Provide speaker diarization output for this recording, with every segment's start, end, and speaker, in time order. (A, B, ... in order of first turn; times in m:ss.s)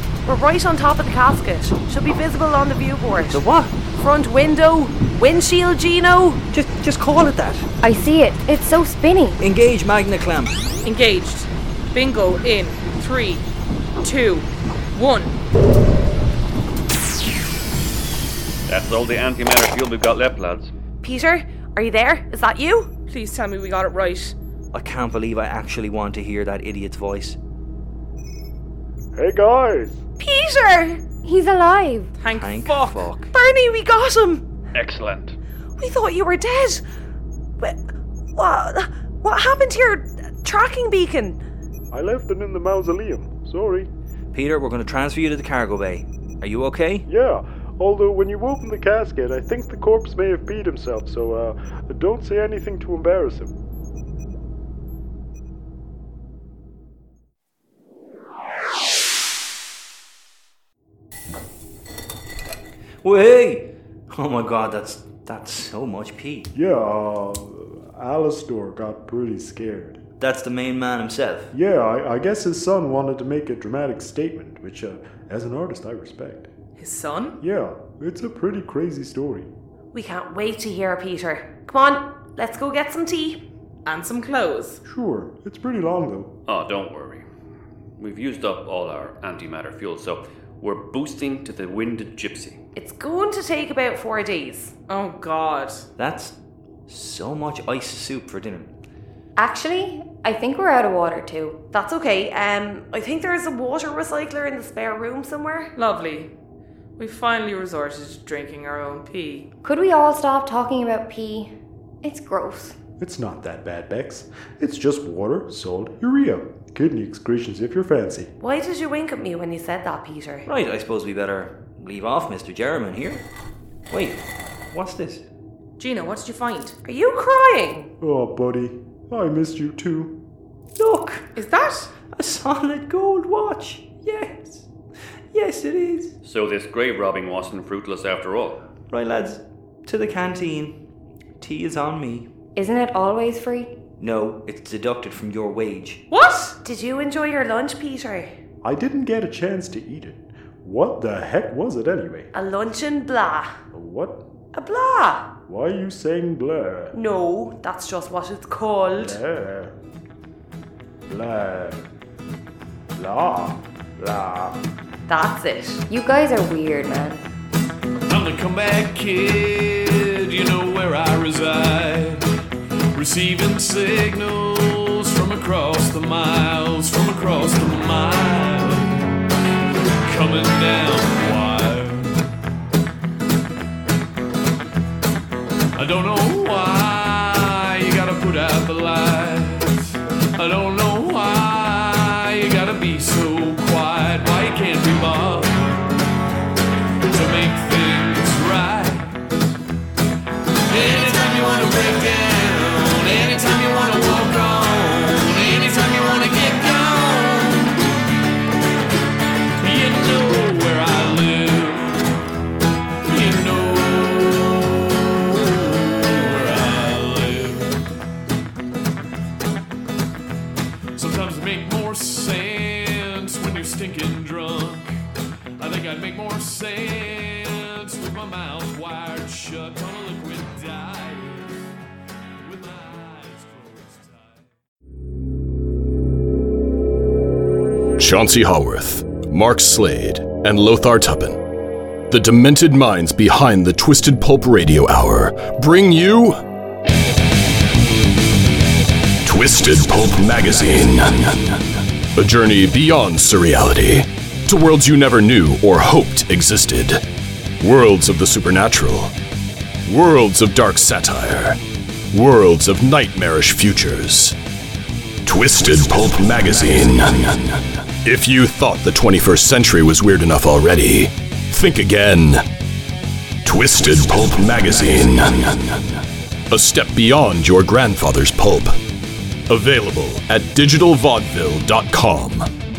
0:00.2-0:06.4 A
0:03.1-0:03.7 B
0:06.5-0:07.7 B
0:07.8-0:09.4 C
0:09.4-0:10.6 B
0:10.8-0:13.4 D
0:14.0-0:15.4 D
0:18.7-0:20.7 E
0:21.0-0:22.9 A
0:23.1-0:24.3 D
0:24.7-0:27.4 B
0:29.2-0:30.0 F
0:30.2-0:31.0 A
0:31.2-0:32.1 C
0:32.2-0:33.0 D
0:32.3-0:33.3 B
0:33.3-0:34.4 A
0:34.7-0:35.4 E
0:35.8-0:36.8 A
0:38.3-0:41.4 A
0:41.9-0:43.9 F
0:44.3-0:47.1 B
0:47.1-0:53.5 F
1:03.0-1:06.5 B
1:06.5-1:10.0 F
1:10.2-1:11.5 B
1:11.5-1:16.5 F
1:16.8-1:17.4 D
1:17.4-1:19.5 F
1:19.9-1:23.4 A
1:23.8-1:24.8 D
1:24.8-1:26.3 F
1:26.5-1:27.2 E
1:28.0-1:32.6 E
1:32.7-1:34.7 A
1:34.9-1:35.8 D
1:36.0-1:38.7 B
1:39.4-1:41.6 C
1:41.7-1:45.7 A
1:45.7-1:46.3 D
1:47.0-1:49.5 D
1:49.6-1:52.8 C
1:53.0-1:58.3 F
1:58.4-2:00.5 A
2:00.4-2:03.2 B
2:03.9-2:05.2 B
2:05.8-2:06.7 D
2:06.8-2:07.9 A
2:08.0-2:10.2 F
2:10.7-2:11.3 B
2:11.4-2:11.9 D
2:12.0-2:14.7 B
2:15.3-2:16.1 B
2:16.2-2:18.6 E
2:18.9-2:20.8 B
2:21.4-2:22.3 B
2:22.6-2:23.8 C
2:24.0-2:26.0 B
2:26.1-2:26.5 D
2:26.6-2:28.4 A
2:28.6-2:32.3 F
2:32.3-2:33.5 A
2:33.7-2:34.2 F
2:34.5-2:35.3 A
2:35.5-2:36.9 F
2:36.9-2:39.2 A
2:39.0-2:39.7 F
2:41.1-2:41.9 F
2:42.9-2:44.6 F
2:45.1-2:45.8 A
2:45.9-2:47.2 C
2:48.1-2:52.2 G
2:52.9-2:59.1 G
3:00.0-3:02.2 G
3:05.8-3:15.8 G
3:17.1-3:19.2 G
3:20.7-3:27.8 G
3:29.6-3:32.0 G
3:33.0-3:37.8 G
3:41.0-3:44.9 G
3:45.6-3:51.6 G
3:52.4-3:54.5 G
3:58.0-4:01.4 H
4:02.1-4:06.4 H
4:09.2-4:17.0 H
4:17.6-4:19.1 H
4:19.9-4:21.6 H
4:22.1-4:24.4 H
4:25.2-4:32.4 H
4:33.4-4:38.8 H
4:39.5-4:42.5 H